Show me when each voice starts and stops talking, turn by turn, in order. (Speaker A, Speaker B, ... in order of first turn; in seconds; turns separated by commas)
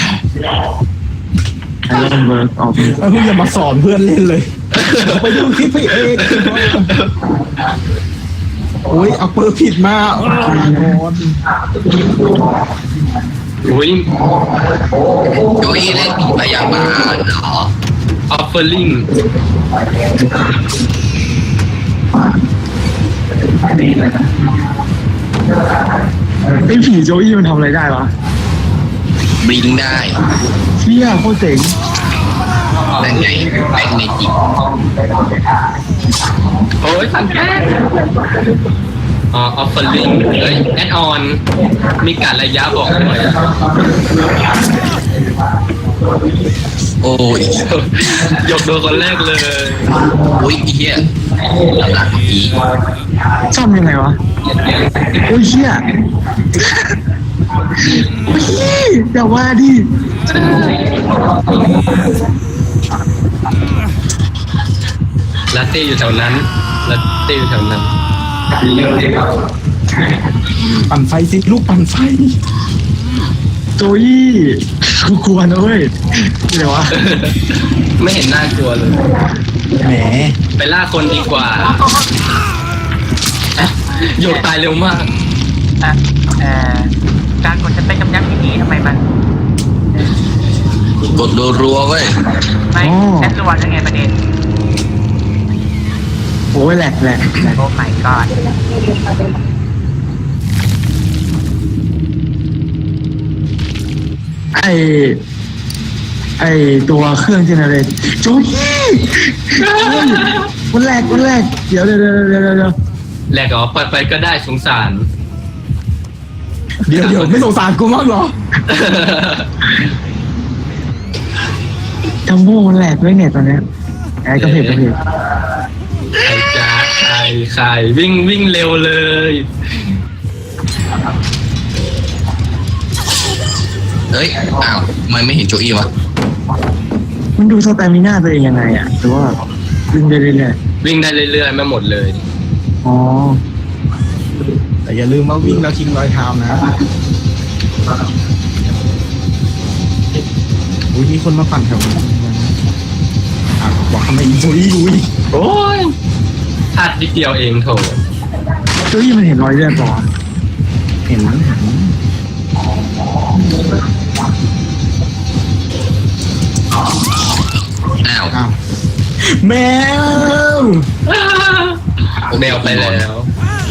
Speaker A: 1.9-3.0, Speaker B: 2.8-6.9, Speaker C: 4.7-7.1, Speaker B: 8.8-11.4, Speaker C: 13.6-14.1, Speaker D: 15.3-17.7, Speaker C: 18.3-19.1, Speaker A: 26.6-28.1, Speaker D: 29.4-30.2, Speaker A: 30.8-31.8, Speaker D: 33.0-34.3, Speaker C: 36.8-37.8, Speaker C: 39.3-41.4, Speaker C: 41.9-43.5, Speaker D: 47.0-47.7, Speaker C: 47.6-49.9, Speaker D: 50.3-52.6, Speaker A: 53.5-54.2, Speaker A: 55.2-56.0, Speaker A: 56.5-56.9, Speaker A: 57.9-60.5, Speaker C: 60.3-60.8, Speaker C: 65.5-67.9, Speaker B: 70.7-72.3, Speaker A: 73.8-77.0, Speaker C: 76.9-79.1, Speaker B: 79.7-80.4, Speaker C: 80.5-81.8, Speaker C: 83.6-85.1, Speaker E: 85.8-86.9, Speaker E: 87.4-89.1, Speaker D: 91.0-92.1, Speaker E: 92.7-94.1, Speaker A: 92.8-93.3, Speaker A: 96.5-97.6, Speaker E: 97.6-98.3, Speaker A: 104.5-105.2, Speaker A: 106.4-112.7, Speaker C: 109.6-110.5, Speaker C: 113.3-115.1, Speaker B: 116.8-118.3, Speaker C: 118.7-119.5, Speaker A: 122.3-123.6, Speaker A: 124.2-125.0, Speaker C: 124.4-124.8, Speaker C: 126.2-129.5, Speaker D: 134.1-135.9, Speaker A: 137.4-139.4, Speaker A: 139.9-140.6, Speaker C: 140.8-142.2, Speaker A: 142.8-143.4, Speaker B: 144.8-146.7, Speaker B: 150.9-152.5, Speaker B: 153.6-155.1, Speaker C: 155.3-155.9, Speaker C: 156.7-158.0, Speaker A: 158.9-160.1, Speaker B: 161.1-161.9, Speaker D: 168.0-168.4, Speaker B: 168.3-168.6, Speaker B: 169.2-170.9, Speaker C: 171.1-171.8, Speaker D: 172.3-173.0, Speaker C: 172.3-173.3